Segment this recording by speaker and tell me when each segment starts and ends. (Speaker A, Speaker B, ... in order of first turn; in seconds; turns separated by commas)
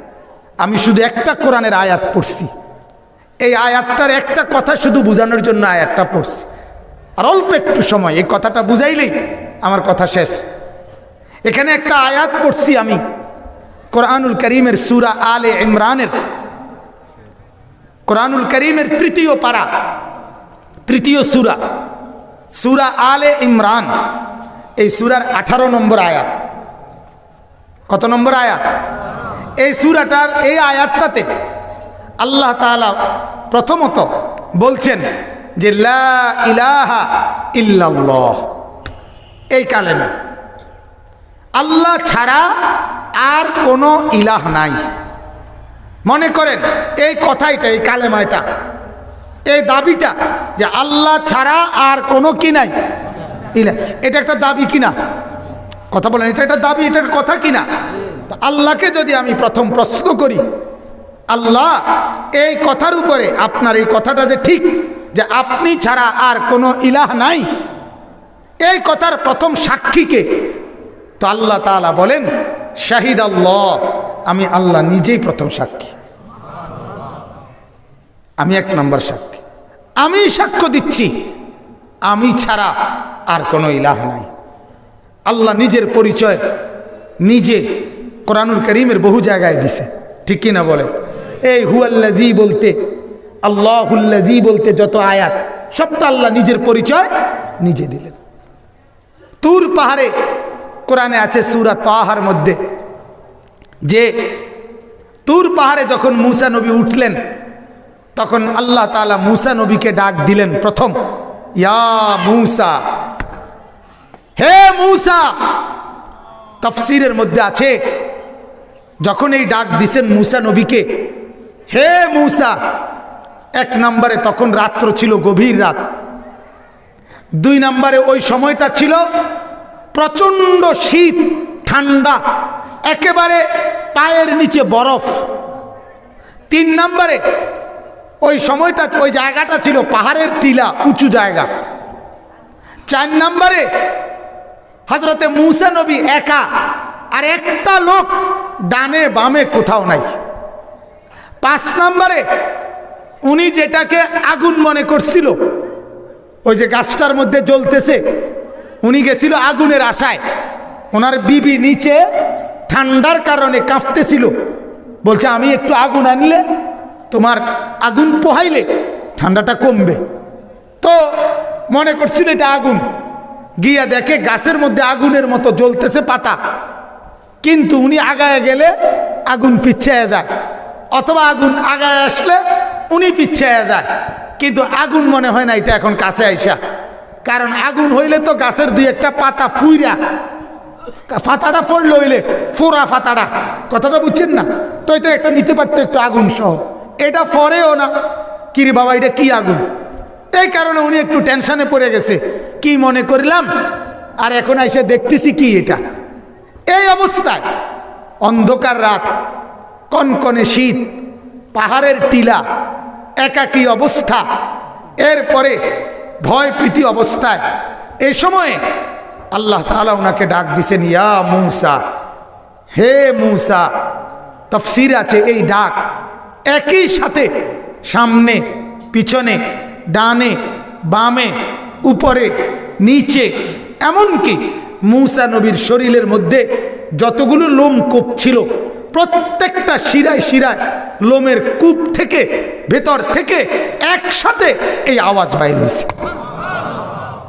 Speaker A: 0.6-2.5, Speaker A: 3.4-6.5, Speaker A: 7.2-10.4, Speaker A: 11.4-13.0, Speaker A: 13.9-16.1, Speaker A: 18.1-19.6, Speaker A: 20.9-21.6, Speaker A: 22.5-23.9, Speaker A: 24.8-26.3, Speaker A: 27.9-28.6, Speaker A: 29.6-31.3, Speaker A: 32.2-38.5, Speaker A: 39.5-40.1, Speaker A: 41.6-42.5, Speaker A: 43.1-44.8, Speaker A: 46.0-48.4, Speaker A: 49.5-52.7, Speaker A: 53.5-54.9, Speaker A: 55.9-57.6, Speaker A: 58.3-60.4, Speaker A: 61.3-61.8, Speaker A: 62.3-67.5, Speaker A: 68.6-70.5, Speaker A: 71.2-75.9, Speaker A: 78.4-79.4, Speaker A: 80.0-81.2, Speaker A: 82.0-82.7, Speaker A: 83.3-84.3, Speaker A: 85.3-86.4, Speaker A: 87.2-90.9, Speaker A: 91.4-92.8, Speaker A: 93.4-97.1, Speaker A: 97.6-98.1, Speaker A: 99.4-100.1, Speaker A: 100.9-102.6, Speaker A: 103.8-104.3, Speaker A: 105.2-107.2, Speaker A: 108.2-110.9, Speaker A: 111.6-112.8, Speaker A: 114.4-115.3, Speaker A: 116.6-117.8, Speaker A: 119.0-121.0, Speaker A: 121.7-122.5, Speaker A: 123.6-125.8, Speaker A: 127.4-129.0, Speaker A: 129.9-132.2, Speaker A: 132.9-135.2, Speaker A: 136.5-137.2, Speaker A: 138.2-141.5, Speaker A: 142.9-143.7, Speaker A: 144.9-146.4, Speaker A: 147.1-150.2, Speaker A: 151.4-152.2, Speaker A: 153.2-155.4, Speaker A: 156.4-158.0, Speaker A: 158.8-160.2, Speaker A: 160.9-162.0, Speaker A: 162.7-164.3, Speaker A: 165.0-166.4, Speaker A: 167.1-170.0, Speaker A: 170.8-172.8, Speaker A: 173.6-176.4, Speaker A: 177.4-178.7, Speaker A: 179.3-180.3, Speaker A: 180.9-183.9, Speaker A: 184.4-186.6, Speaker A: 187.2-190.0, Speaker A: 191.1-197.9, Speaker A: 198.5-199.6, Speaker A: 200.3-203.5, Speaker A: 204.2-205.8, Speaker A: 206.7-207.4, Speaker A: 208.2-209.1, Speaker A: 209.9-211.0, Speaker A: 211.5-212.4, Speaker A: 213.2-214.2, Speaker A: 215.0-215.6, Speaker A: 216.2-217.4, Speaker A: 218.0-218.6, Speaker A: 219.3-221.8, Speaker A: 222.7-223.7, Speaker A: 224.5-225.7, Speaker A: 226.5-227.3, Speaker A: 227.8-245.9